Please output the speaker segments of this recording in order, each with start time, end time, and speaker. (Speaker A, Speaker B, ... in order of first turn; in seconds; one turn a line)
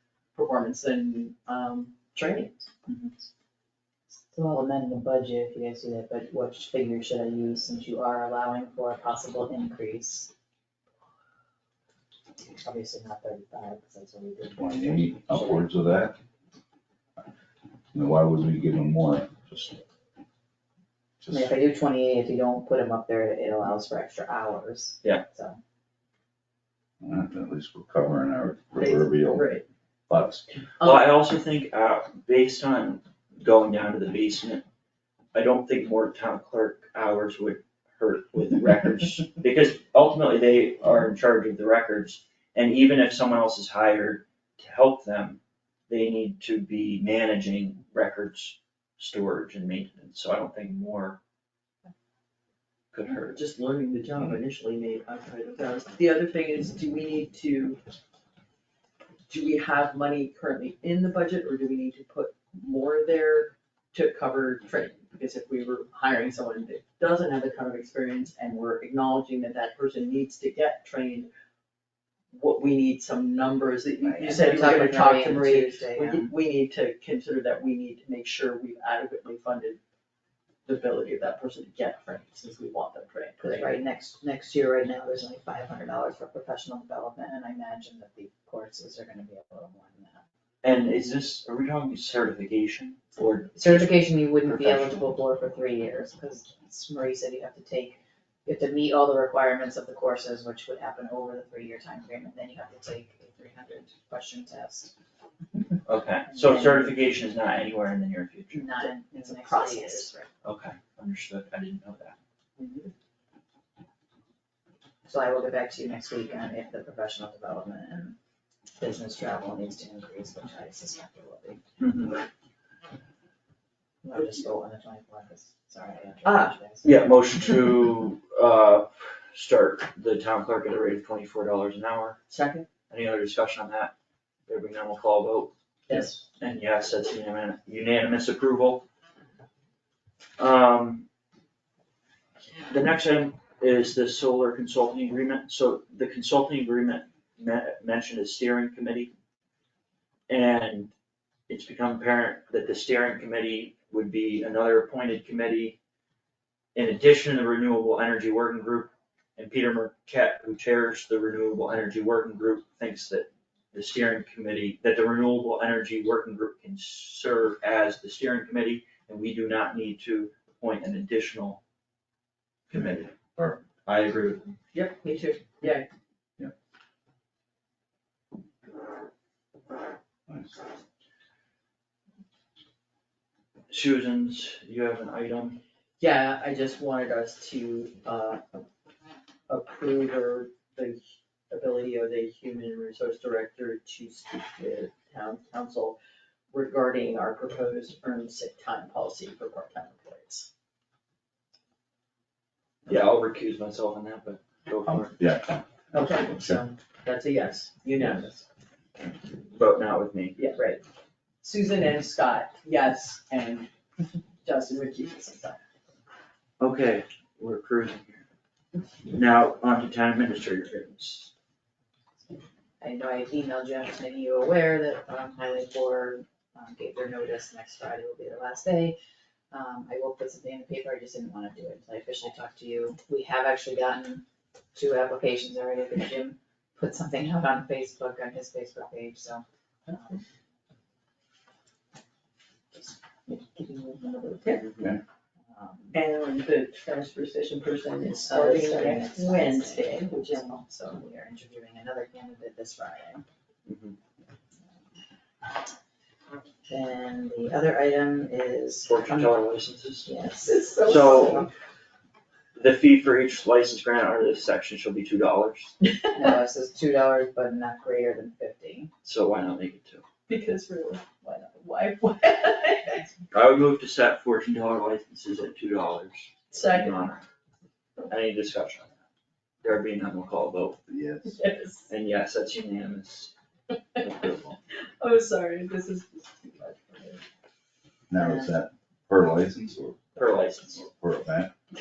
Speaker A: 0.3-2.7
Speaker B: 2.9-3.3
Speaker B: 4.3-10.3
Speaker B: 12.6-15.7
Speaker C: 14.6-16.2
Speaker C: 17.9-19.8
Speaker C: 21.2-21.5
Speaker B: 21.3-25.6
Speaker C: 27.0-29.6
Speaker A: 28.8-29.6
Speaker C: 30.1-30.4
Speaker D: 30.8-34.6
Speaker D: 35.3-51.2
Speaker D: 52.9-53.4
Speaker A: 53.3-57.8
Speaker A: 59.3-71.3
Speaker A: 72.3-79.8
Speaker B: 74.0-76.3
Speaker A: 80.7-83.8
Speaker B: 83.4-90.2
Speaker D: 90.6-95.0
Speaker B: 93.6-104.9
Speaker B: 105.5-106.9
Speaker D: 105.9-108.7
Speaker B: 108.5-110.2
Speaker A: 108.8-110.2
Speaker D: 110.4-112.2
Speaker A: 112.6-112.9
Speaker B: 115.1-118.2
Speaker B: 118.8-121.6
Speaker D: 121.8-122.2
Speaker B: 124.0-127.1
Speaker A: 126.2-126.6
Speaker D: 126.8-132.2
Speaker A: 132.3-132.7
Speaker D: 132.9-133.9
Speaker D: 134.5-138.9
Speaker A: 135.9-136.2
Speaker D: 140.4-141.1
Speaker D: 142.7-149.1
Speaker D: 150.3-150.9
Speaker D: 151.5-155.8
Speaker D: 156.8-171.6
Speaker D: 172.7-173.2
Speaker C: 173.3-173.6
Speaker D: 173.8-174.5
Speaker A: 174.7-175.9
Speaker C: 180.3-180.6
Speaker D: 183.7-185.6
Speaker A: 186.0-188.7
Speaker A: 189.5-196.0
Speaker A: 196.5-200.5
Speaker D: 202.9-205.2
Speaker C: 204.9-206.6
Speaker A: 205.9-208.4
Speaker D: 209.5-210.4
Speaker A: 210.4-210.8
Speaker A: 211.4-213.7
Speaker A: 214.4-215.6
Speaker D: 216.6-218.2
Speaker D: 219.1-221.3
Speaker B: 222.8-229.0
Speaker B: 229.5-240.2
Speaker A: 243.3-244.7
Speaker D: 244.6-245.0
Speaker B: 245.5-246.0
Speaker A: 245.9-250.9
Speaker B: 248.1-253.2
Speaker D: 253.7-254.0
Speaker B: 256.7-259.4
Speaker D: 258.9-260.1
Speaker B: 260.0-261.4
Speaker A: 260.4-261.5
Speaker D: 260.8-261.5
Speaker D: 262.6-265.8
Speaker B: 266.1-268.9
Speaker D: 269.0-270.1
Speaker A: 270.3-273.1
Speaker D: 273.3-277.2
Speaker A: 276.5-277.0
Speaker D: 278.1-279.0
Speaker D: 279.6-280.8
Speaker C: 280.9-281.4
Speaker A: 281.2-281.9
Speaker D: 281.9-283.3
Speaker D: 284.0-284.6
Speaker A: 285.0-287.2
Speaker C: 288.1-290.1
Speaker B: 288.1-288.6
Speaker D: 290.2-290.9
Speaker C: 290.8-291.5